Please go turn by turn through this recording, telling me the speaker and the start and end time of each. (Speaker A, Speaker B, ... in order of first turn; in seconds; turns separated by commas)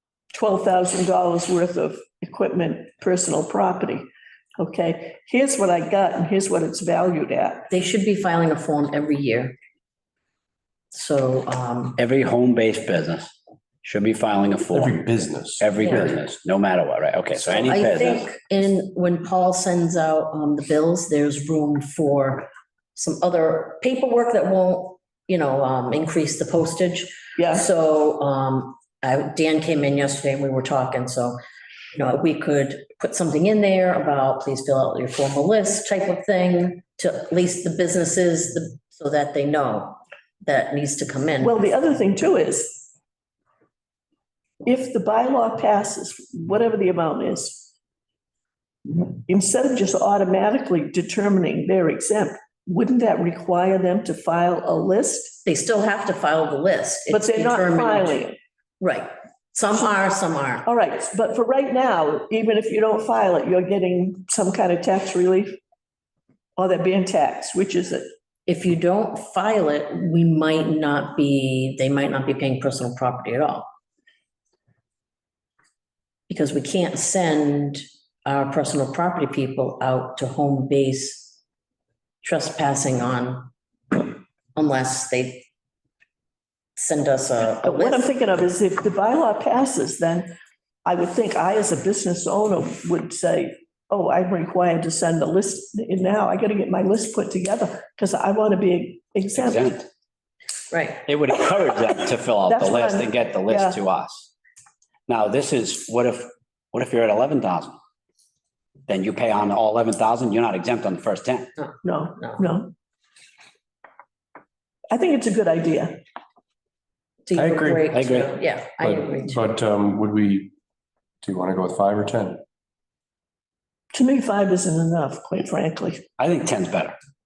Speaker A: 0.3-7.7, Speaker B: 7.7-9.6, Speaker B: 10.9-12.0, Speaker C: 12.0-15.1, Speaker D: 14.7-15.7, Speaker C: 15.6-18.2, Speaker B: 15.8-16.2, Speaker B: 17.5-31.4, Speaker A: 27.4-27.7, Speaker B: 31.9-41.7, Speaker A: 41.4-42.9, Speaker A: 44.6-47.7, Speaker A: 48.9-55.4, Speaker B: 55.5-58.2, Speaker A: 57.1-58.4, Speaker B: 58.8-60.7, Speaker A: 60.6-65.6, Speaker A: 66.6-68.1, Speaker B: 68.5-73.7, Speaker B: 76.3-81.4, Speaker B: 82.2-85.5, Speaker B: 86.8-88.1, Speaker A: 87.6-90.3, Speaker A: 90.8-99.7, Speaker C: 99.3-99.9, Speaker B: 100.7-101.0, Speaker C: 101.1-104.3, Speaker A: 102.5-103.8, Speaker C: 105.1-107.8, Speaker C: 108.9-111.5, Speaker B: 111.6-112.5, Speaker A: 111.8-112.7, Speaker A: 114.9-116.0, Speaker B: 117.2-119.4, Speaker D: 117.3-117.9, Speaker C: 117.9-118.3, Speaker D: 118.8-120.5, Speaker D: 121.2-122.4, Speaker A: 123.9-126.0, Speaker C: 126.2-127.0